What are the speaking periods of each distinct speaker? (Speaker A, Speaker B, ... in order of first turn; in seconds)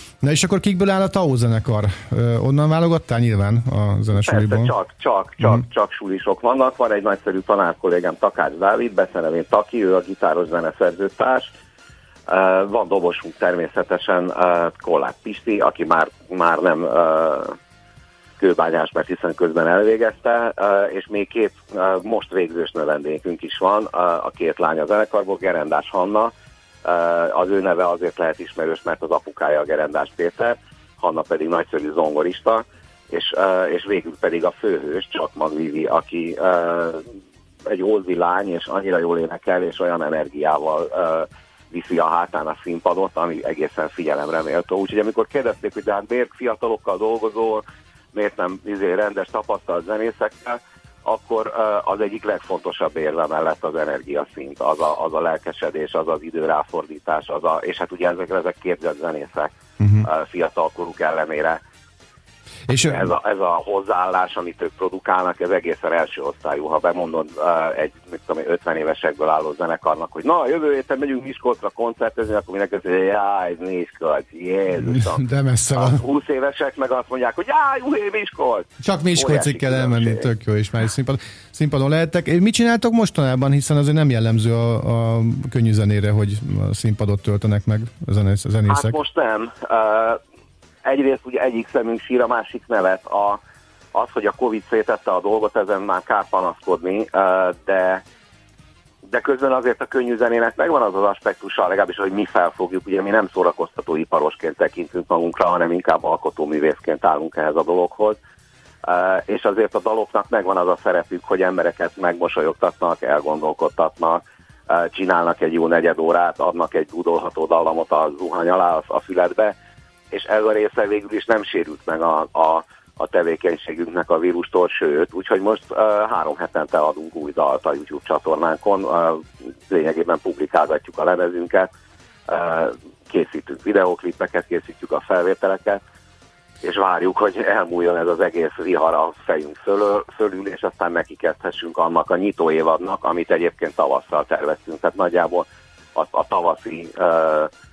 Speaker A: 0.2-4.7, 59.8-60.1, 62.7-63.1, 74.8-76.0, 78.8-89.0
Speaker B: 4.1-11.5, 12.3-17.6, 18.4-26.3, 26.8-37.0, 37.6-47.6, 48.1-61.6, 62.8-80.2, 88.7-90.2, 90.8-93.4, 93.9-98.0, 99.1-108.2, 108.8-119.5, 120.1-131.7, 132.3-135.8, 136.6-147.5